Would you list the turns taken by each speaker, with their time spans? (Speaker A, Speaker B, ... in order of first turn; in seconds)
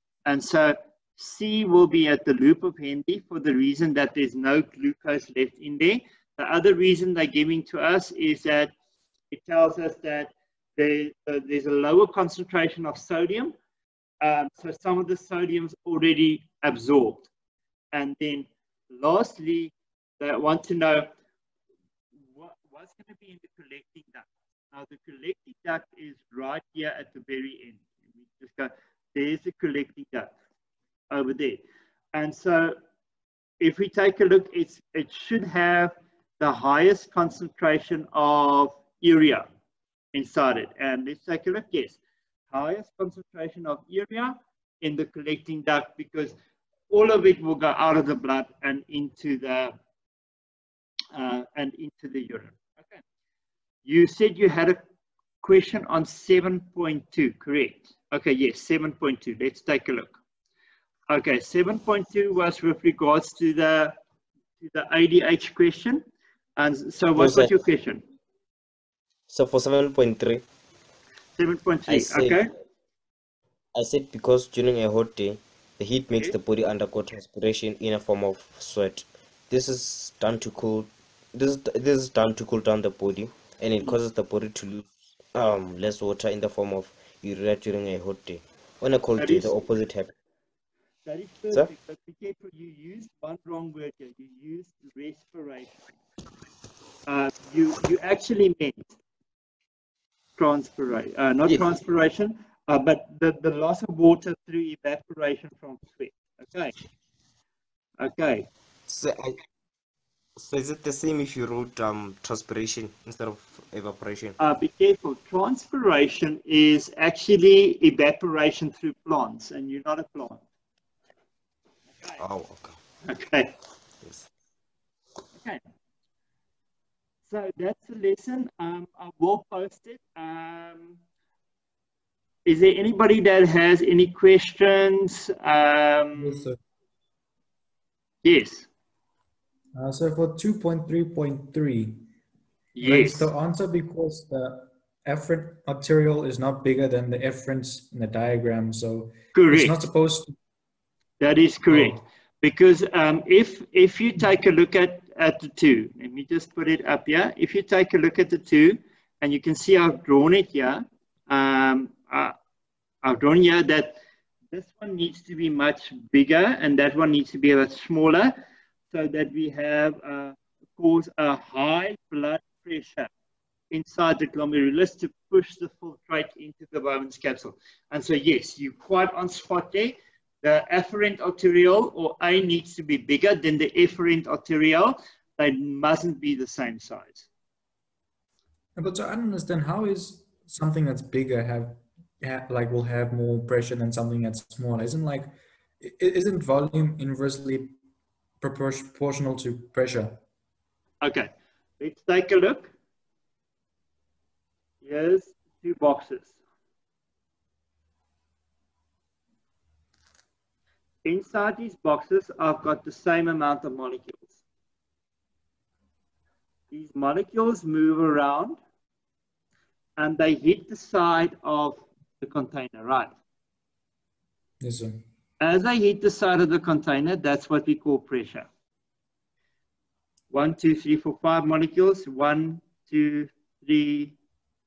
Speaker A: 0.2-8.7, 9.3-13.5, 14.2-17.3, 17.9-21.1, 22.3-30.3, 31.1-31.6, 32.1-32.7, 33.6-39.5, 40.1-42.0, 42.5-46.3, 46.9-49.7, 51.1-53.0, 53.8-54.8, 55.4-60.1, 61.1-63.9, 64.6-66.0, 66.6-68.0, 71.4-72.5, 89.2-89.6, 91.0-95.9, 97.1-99.0, 100.4-106.7, 108.0-108.5, 114.4-120.4, 121.9-122.2, 123.0-123.5, 125.3-125.6, 127.2-131.0, 132.4-136.4, 138.2-138.7, 142.8-143.3, 149.3-149.7, 151.2-162.3, 163.0-164.0, 164.5-168.3, 168.9-173.1, 173.7-187.3, 201.0-202.7, 204.8-206.4, 211.0-214.4, 216.7-218.6, 220.0-223.2, 225.4-228.5, 230.3-234.2
Speaker B: 67.2-67.5, 69.3-70.4, 71.9-72.4, 73.7-90.1, 108.9-109.4, 110.4-114.4, 122.2-122.8, 124.0-124.3
Speaker C: 136.2-136.6, 139.7-142.0, 142.8-150.3, 151.7-152.0, 188.8-197.8, 198.4-200.2, 224.6-225.0